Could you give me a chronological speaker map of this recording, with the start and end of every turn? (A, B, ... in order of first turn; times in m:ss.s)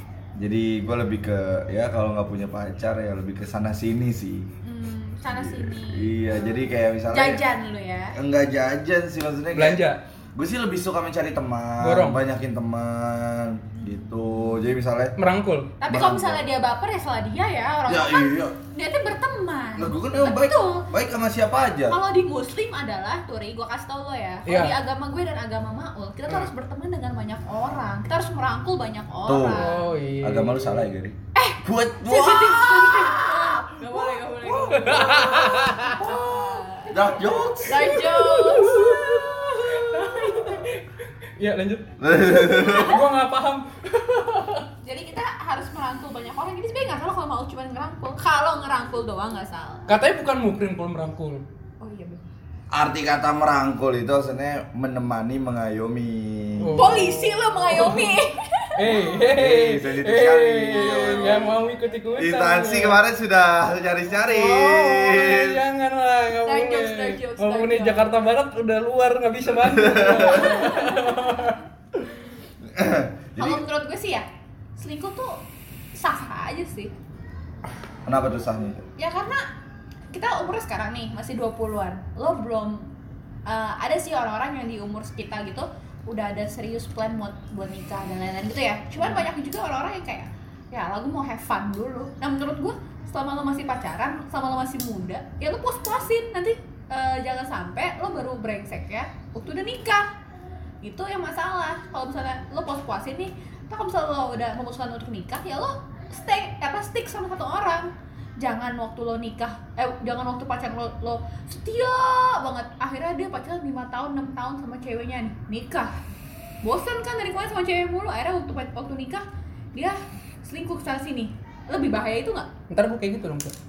0:00.4-0:04.5 A
0:04.6-0:08.2 B
0:05.3-0:07.4 A
0:08.2-0:09.8 A
0:09.5-0:10.0 C
0:10.4-0:15.2 A
0:11.8-0:12.2 C
0:15.2-0:15.7 C
0:15.8-0:20.9 B
0:15.9-0:16.4 A
0:17.9-0:18.6 A
0:19.8-0:22.0 A
0:21.9-0:29.8 B
0:24.5-0:24.8 C
0:29.3-0:33.9 A
0:29.5-0:30.9 C
0:31.4-0:37.0 B
0:34.5-0:36.4 C
0:36.9-0:38.0 A
0:37.4-0:44.7 C
0:37.7-0:40.6 B
0:42.0-0:43.0 A
0:42.5-0:43.0 B
0:44.8-0:49.9 B
0:49.9-0:51.4 C
0:51.8-0:52.3 B
0:52.7-0:57.0 A
0:56.6-0:58.2 C
0:56.8-0:59.2 B
0:58.8-1:03.0 C
0:59.2-1:01.6 A
1:01.0-1:02.0 B
1:02.2-1:05.6 A
1:04.2-1:11.6 C
1:06.4-1:08.2 B
1:09.5-1:10.6 A
1:10.3-1:11.6 B
1:12.6-1:13.6 A
1:13.4-1:15.4 B
1:16.0-1:16.9 B
1:18.0-1:18.8 A
1:19.0-1:19.5 B
1:20.1-1:22.9 B
1:23.5-1:40.1 B
1:40.8-1:55.9 B
1:56.6-2:02.5 B
2:02.7-2:03.5 C